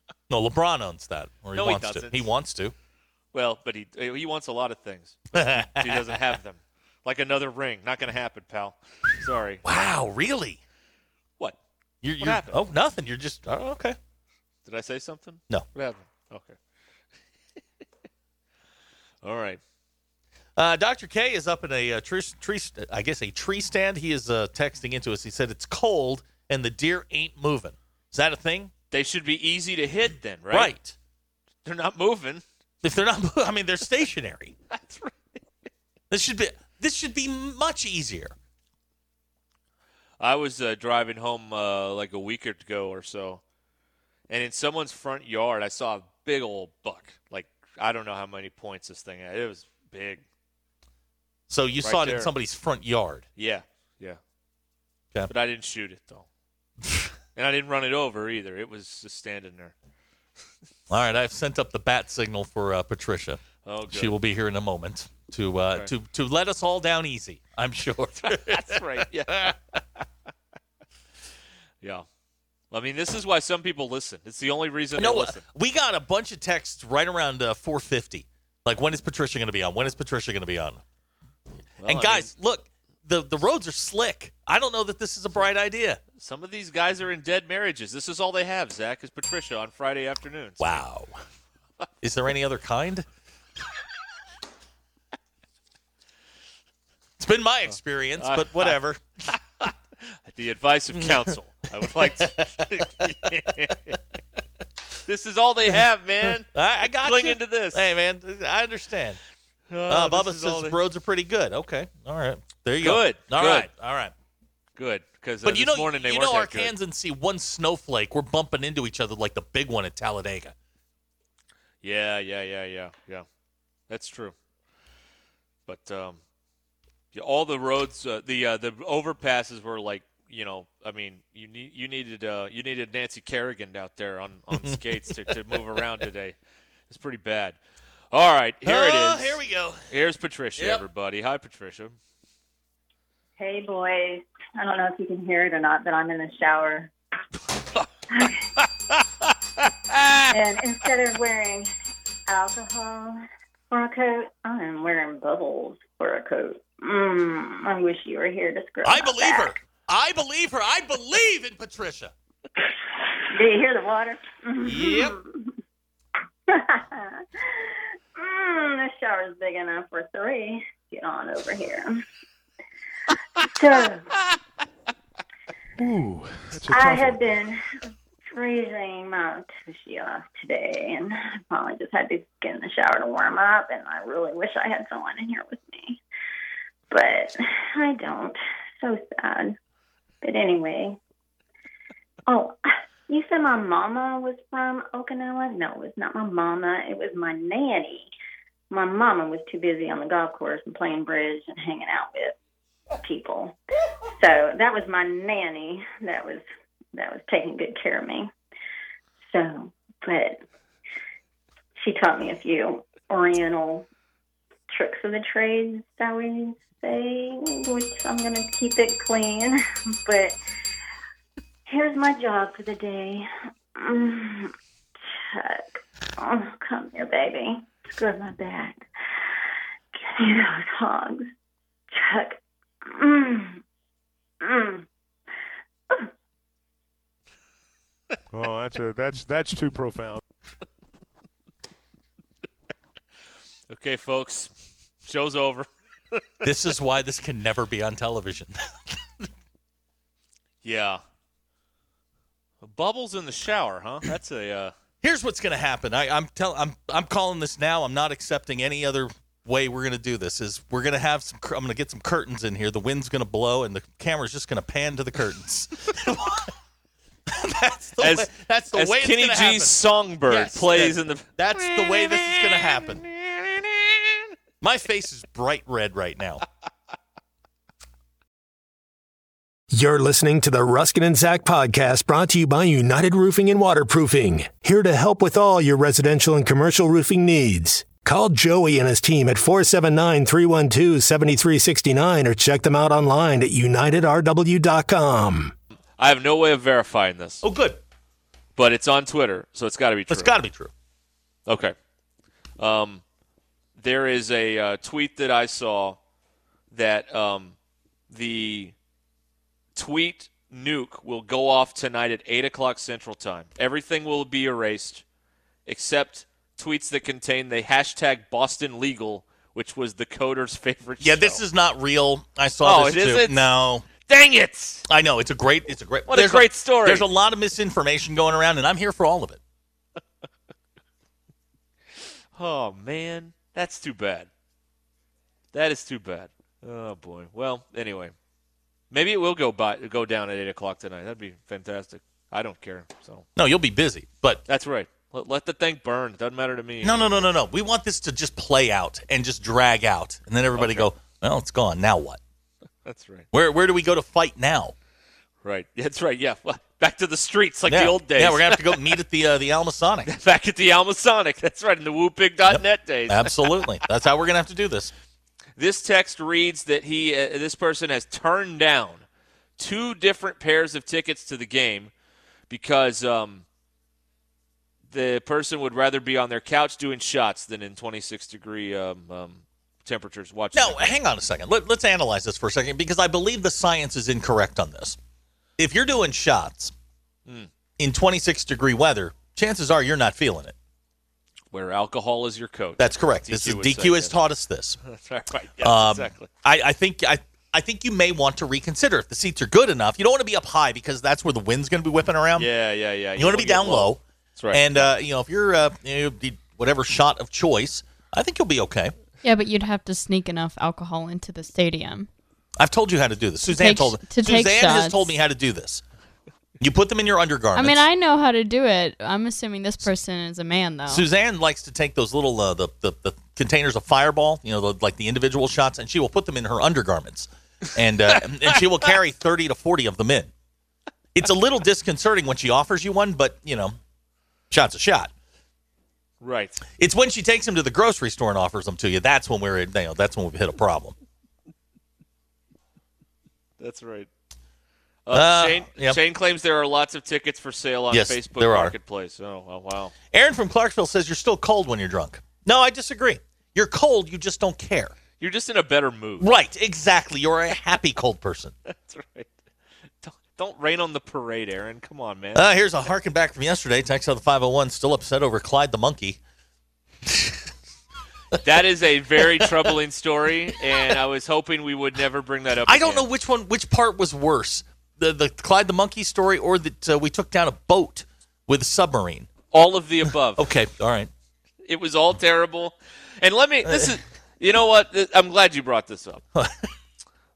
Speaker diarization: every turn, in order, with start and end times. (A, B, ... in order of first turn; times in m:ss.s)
0:00.3-0:02.8 A
0:01.5-0:02.3 B
0:03.3-0:09.6 B
0:05.3-0:06.3 A
0:09.6-0:10.6 A
0:12.0-0:14.0 A
0:12.2-0:12.6 B
0:14.7-0:16.6 B
0:19.2-0:19.6 B
0:20.6-0:28.7 A
0:28.9-0:30.7 B
0:30.5-0:31.0 A
0:31.6-0:32.4 B
0:32.8-0:34.5 A
0:34.7-0:35.4 B
0:36.1-0:38.4 A
0:40.2-0:43.4 B
0:44.3-0:50.2 B
0:51.5-0:53.2 A
0:51.8-0:52.3 B
0:53.4-0:54.2 B
0:55.3-0:56.3 B
0:57.4-0:59.7 B
1:00.9-1:09.6 A
1:03.6-1:04.2 B
1:08.2-1:09.5 B
1:12.7-1:15.4 B
1:15.0-1:20.8 A
1:21.8-1:22.3 B
1:21.8-1:26.0 A
1:26.2-1:30.8 B
1:30.6-1:31.2 A
1:32.0-1:33.1 A
1:37.2-1:39.0 A
1:38.2-1:38.8 B
1:39.3-1:44.0 B
1:40.9-1:41.3 A
1:42.0-1:43.2 A
1:45.1-1:46.5 B
1:45.7-1:49.2 A
1:47.0-1:47.9 B
1:49.7-1:50.8 B
1:49.9-1:54.1 A
1:52.8-1:53.7 B
1:54.8-1:56.7 B
1:55.4-2:00.5 A
2:01.8-2:03.3 B
2:03.9-2:04.4 B
2:05.7-2:06.2 B
2:07.1-2:16.4 B
2:14.5-2:15.3 A
2:16.9-2:17.6 B
2:18.1-2:22.0 B
2:18.6-2:19.9 A
2:20.6-2:20.8 A
2:23.4-2:26.9 C
2:28.1-2:28.5 C
2:29.2-2:30.3 B
2:30.3-2:31.7 C
2:32.3-2:39.6 C
2:38.8-2:42.1 A
2:43.3-2:45.5 C
2:44.6-2:45.2 A
2:46.5-2:52.0 C
2:53.4-2:54.1 C
2:55.8-2:57.2 D
2:56.7-2:57.8 C
2:58.3-3:06.0 C
3:06.9-3:09.6 C
3:10.2-3:11.0 C
3:12.3-3:18.1 C
3:18.7-3:22.4 C
3:23.0-3:23.6 C
3:24.2-3:28.3 C
3:29.2-3:30.4 C
3:31.8-3:33.9 C
3:34.7-3:40.4 C
3:41.7-3:44.5 C
3:45.1-3:51.3 C
3:51.9-3:53.6 C
3:54.4-3:54.9 C
3:58.3-4:00.2 D
4:03.7-4:04.5 B
4:05.0-4:06.2 B
4:06.4-4:09.3 A
4:10.6-4:11.0 B
4:12.6-4:14.7 B
4:15.0-4:26.5 A
4:27.3-4:33.0 A
4:28.0-4:32.6 B
4:34.6-4:36.4 A
4:39.7-4:55.5 E
4:56.0-4:57.4 B
4:57.4-4:57.8 A
4:58.6-5:00.3 B
5:00.1-5:00.7 A
5:01.5-5:01.8 B
5:02.6-5:03.0 B
5:03.8-5:06.0 B
5:06.7-5:07.6 B
5:08.1-5:08.8 B
5:09.8-5:15.0 B
5:15.7-5:21.4 B
5:21.0-5:23.9 A
5:22.6-5:24.9 B
5:24.9-5:29.4 A
5:26.1-5:27.1 B
5:32.4-5:34.3 B
5:35.5-5:38.1 B
5:38.9-5:43.3 B
5:43.4-5:44.4 A
5:44.5-5:47.2 B
5:46.8-5:52.2 A
5:50.6-5:50.9 B
5:52.8-5:53.3 B
5:53.3-5:54.8 A
5:55.4-5:58.8 B
5:57.7-6:00.1 A
6:00.0-6:03.8 B
6:02.5-6:04.9 A
6:05.6-6:09.0 B
6:09.6-6:11.9 B
6:12.5-6:13.4 B
6:14.9-6:21.0 B
6:20.5-6:25.0 A
6:25.6-6:26.7 A
6:27.8-6:30.6 A
6:31.5-6:34.2 B
6:32.8-6:34.8 A
6:34.8-6:36.3 B
6:35.6-6:42.5 A
6:42.4-6:44.9 B
6:43.2-6:44.0 A
6:44.5-6:48.9 A
6:49.2-6:52.1 F
6:52.6-6:55.8 A
6:53.4-6:55.2 F
6:56.6-6:57.8 A
6:57.6-7:01.1 F
7:00.9-7:10.3 A
7:08.1-7:08.9 B
7:11.2-7:13.8 A
7:14.5-7:15.1 A
7:16.2-7:16.6 B
7:16.8-7:21.0 A
7:23.6-7:24.1 B
7:25.1-7:29.9 B
7:25.1-7:26.0 A
7:27.9-7:28.7 A
7:30.1-7:34.9 A
7:35.2-7:36.3 B
7:36.2-7:38.5 A
7:38.7-7:39.3 B
7:40.0-7:42.5 B
7:42.4-7:46.2 A
7:47.1-7:47.4 A
7:48.4-7:53.1 B
7:49.2-7:49.7 A
7:52.7-7:59.3 A
7:59.5-8:00.4 B
8:00.4-8:01.1 A
8:01.7-8:06.2 B
8:03.6-8:04.0 A
8:06.4-8:06.7 A